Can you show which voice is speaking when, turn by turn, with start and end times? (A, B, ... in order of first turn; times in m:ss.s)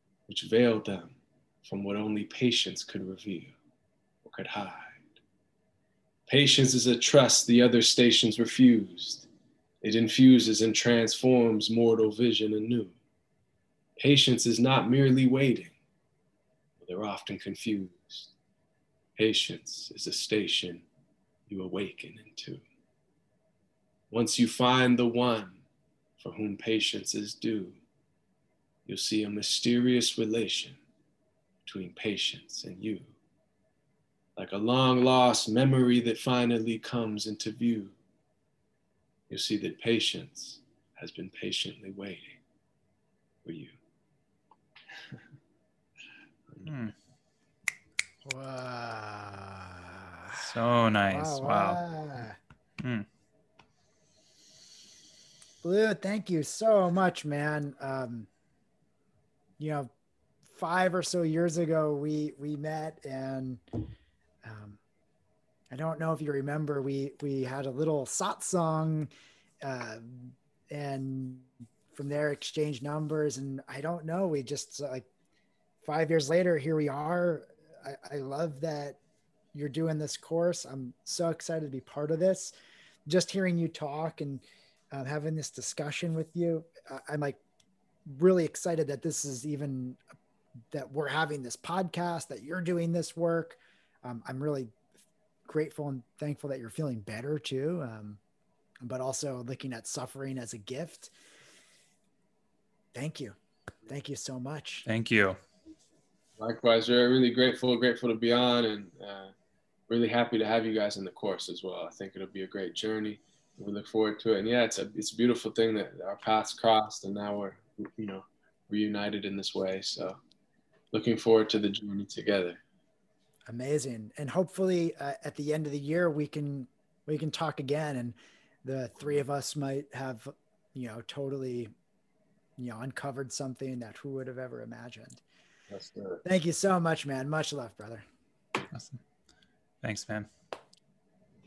0:00.3-0:03.5 A
0:04.2-0:05.1 A
0:06.3-0:09.3 A
0:09.8-0:13.0 A
0:14.0-0:15.8 A
0:16.8-0:18.3 A
0:19.2-0:20.9 A
0:21.5-0:22.6 A
0:24.1-0:25.6 A
0:26.2-0:27.8 A
0:28.9-0:30.8 A
0:31.7-0:33.1 A
0:34.4-0:38.0 A
0:39.3-0:42.4 A
0:43.4-0:43.8 A
0:46.6-0:46.9 B
0:48.2-0:50.6 C
0:50.3-0:51.8 B
0:51.1-0:52.4 C
0:52.8-0:53.1 B
0:55.6-0:58.3 C
0:59.6-0:59.9 C
1:00.5-1:03.9 C
1:04.4-1:04.8 C
1:05.7-1:09.1 C
1:09.6-1:15.1 C
1:15.8-1:19.0 C
1:19.5-1:22.5 C
1:23.1-1:27.4 C
1:28.0-1:30.0 C
1:30.7-1:34.7 C
1:35.5-1:38.2 C
1:38.8-1:41.1 C
1:42.9-1:44.9 C
1:44.9-1:45.4 B
1:46.4-1:49.3 A
1:49.9-2:00.2 A
2:00.9-2:02.6 A
2:03.5-2:11.7 C
2:12.6-2:15.2 C
2:15.7-2:16.2 A
2:16.2-2:18.0 C
2:18.7-2:19.0 B
2:19.8-2:20.3 B